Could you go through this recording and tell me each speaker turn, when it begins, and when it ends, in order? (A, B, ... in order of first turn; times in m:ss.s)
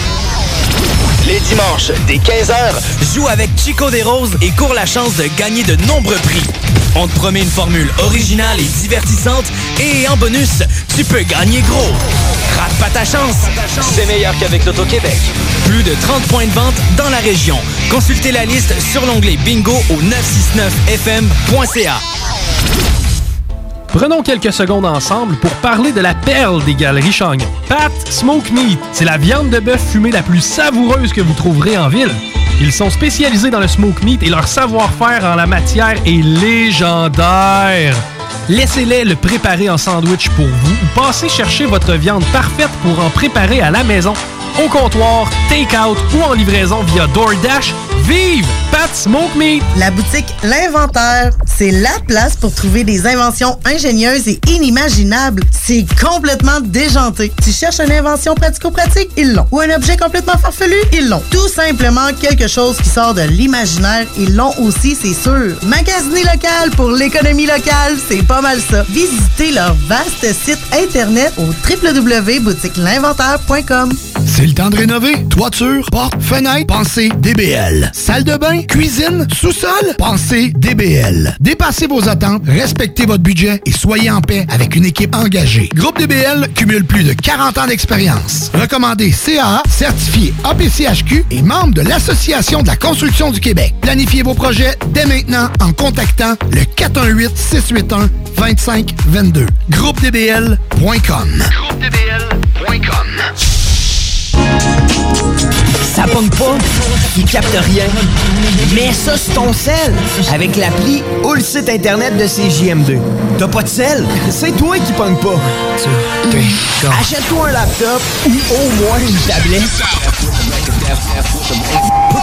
0:01.2-0:22.0 A
0:23.9-0:49.7 B
0:49.7-1:14.0 C
1:14.3-1:39.7 D
1:39.8-1:40.4 E
1:40.5-1:41.5 D
1:42.6-1:43.0 E
1:45.9-1:55.4 E
1:56.3-2:01.8 E